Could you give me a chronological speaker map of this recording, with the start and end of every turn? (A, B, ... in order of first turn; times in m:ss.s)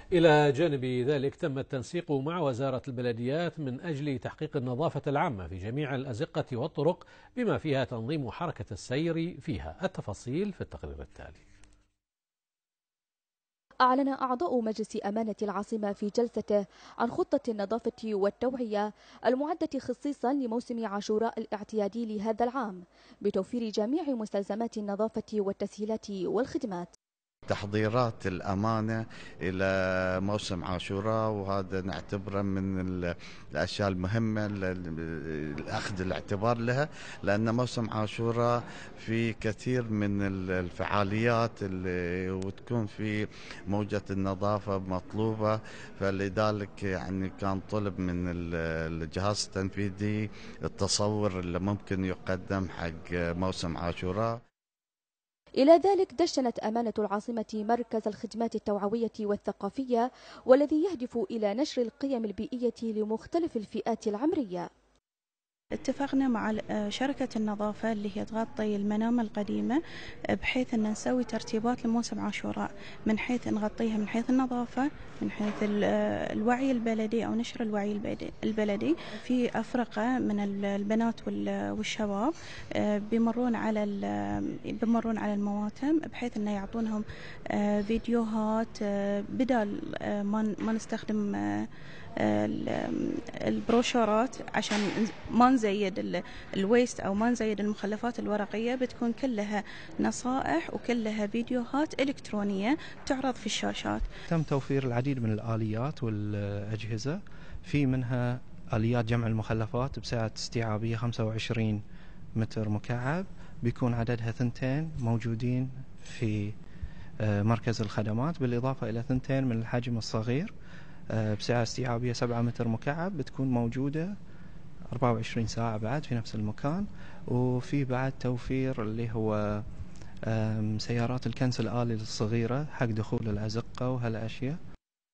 0:00.1-0:11.4 A
0:13.8-0:26.9 B
0:27.5-0:29.7 C
0:30.2-0:54.4 C
0:55.6-1:04.7 B
1:05.8-1:09.8 D
1:10.3-1:31.7 D
1:32.2-1:44.1 D
1:44.3-1:51.8 E
1:52.4-1:56.5 E
1:57.2-2:00.5 E
2:01.1-2:04.2 E
2:04.9-2:09.6 E
2:10.3-2:14.6 E